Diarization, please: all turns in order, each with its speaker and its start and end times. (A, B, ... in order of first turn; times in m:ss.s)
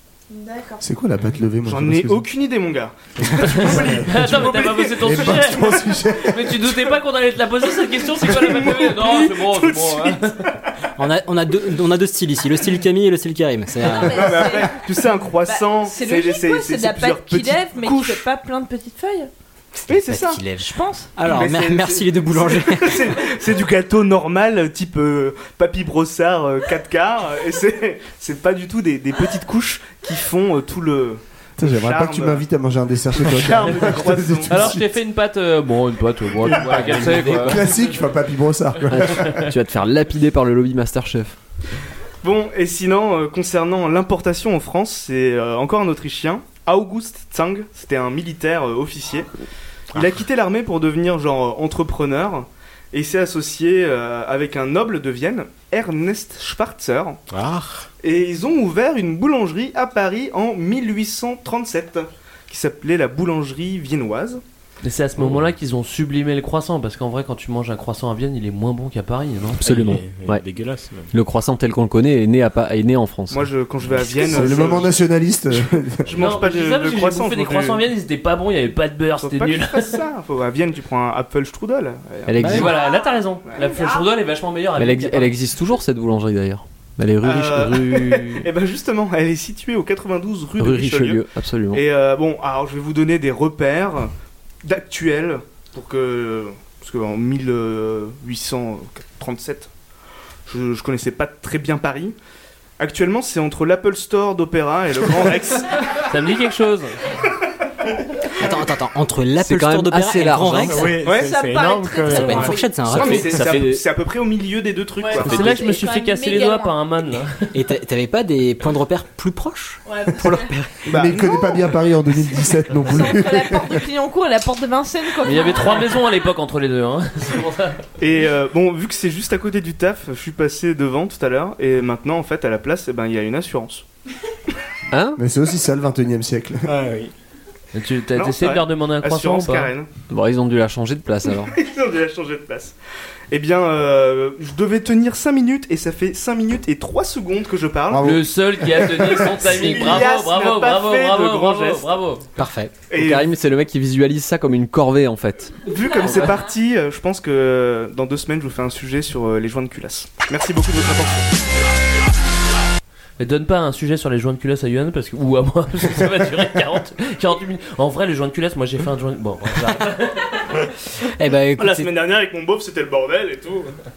0:00.3-0:00.8 A
0:00.8-0:02.2 B
0:01.6-0:05.5 C
0:03.5-0:10.3 D
0:03.7-0:04.3 B
0:05.0-0:06.7 B
0:08.2-0:10.6 C
0:11.0-0:14.5 E
0:13.8-0:14.8 A
0:14.0-0:18.3 C
0:15.4-0:19.3 A
0:19.8-0:23.2 E
0:19.9-0:20.4 C
0:20.6-0:21.1 A
0:21.2-0:32.4 C
0:31.6-0:34.8 B
0:33.2-0:34.8 C
0:34.5-0:37.8 D
0:36.4-0:37.6 F
0:37.2-0:39.5 B
0:38.9-0:41.3 G
0:42.2-0:49.3 C
0:49.9-0:57.2 C
0:57.3-0:57.9 F
0:58.0-1:04.4 C
1:04.8-1:09.6 D
1:05.2-1:05.5 F
1:09.6-1:10.4 G
1:09.6-1:11.1 F
1:11.1-1:13.5 G
1:13.3-1:15.0 C
1:13.9-1:14.7 E
1:14.2-1:16.1 B
1:16.0-1:17.8 C
1:16.1-1:20.0 D
1:19.2-1:22.6 C
1:22.3-1:22.7 G
1:22.4-1:22.7 E
1:22.4-1:25.3 D
1:23.5-1:24.0 C
1:24.8-1:28.5 G
1:27.2-1:34.1 C
1:30.6-1:31.8 G
1:34.6-1:39.7 C
1:40.5-1:42.2 C
1:42.8-1:46.0 C
1:45.9-1:47.1 D
1:48.4-1:51.0 E
1:49.4-1:50.9 G
1:50.7-1:52.6 F
1:51.0-1:51.4 C
1:51.1-1:52.7 A
1:52.1-1:53.4 E
1:52.8-1:55.7 C
1:53.0-1:53.8 G
1:55.0-1:57.1 A
1:55.2-1:57.5 D
1:57.5-2:00.8 E
1:59.9-2:00.5 A
2:00.9-2:01.6 C
2:00.9-2:03.8 B
2:01.2-2:01.6 A
2:02.5-2:05.9 A
2:05.2-2:07.8 D
2:08.0-2:13.8 C
2:14.9-2:15.2 G
2:15.2-2:16.8 B
2:16.6-2:17.1 F
2:17.7-2:19.7 D
2:18.2-2:19.9 C
2:20.1-2:21.5 G
2:21.4-2:22.7 C
2:23.3-2:28.1 C
2:27.9-2:29.9 B
2:27.9-2:32.2 D
2:29.4-2:31.9 C
2:32.4-2:32.8 E
2:32.9-2:33.3 C
2:32.9-2:35.6 G
2:35.6-2:41.4 C
2:43.2-2:50.6 D
2:51.0-2:51.9 E
2:51.6-2:53.8 C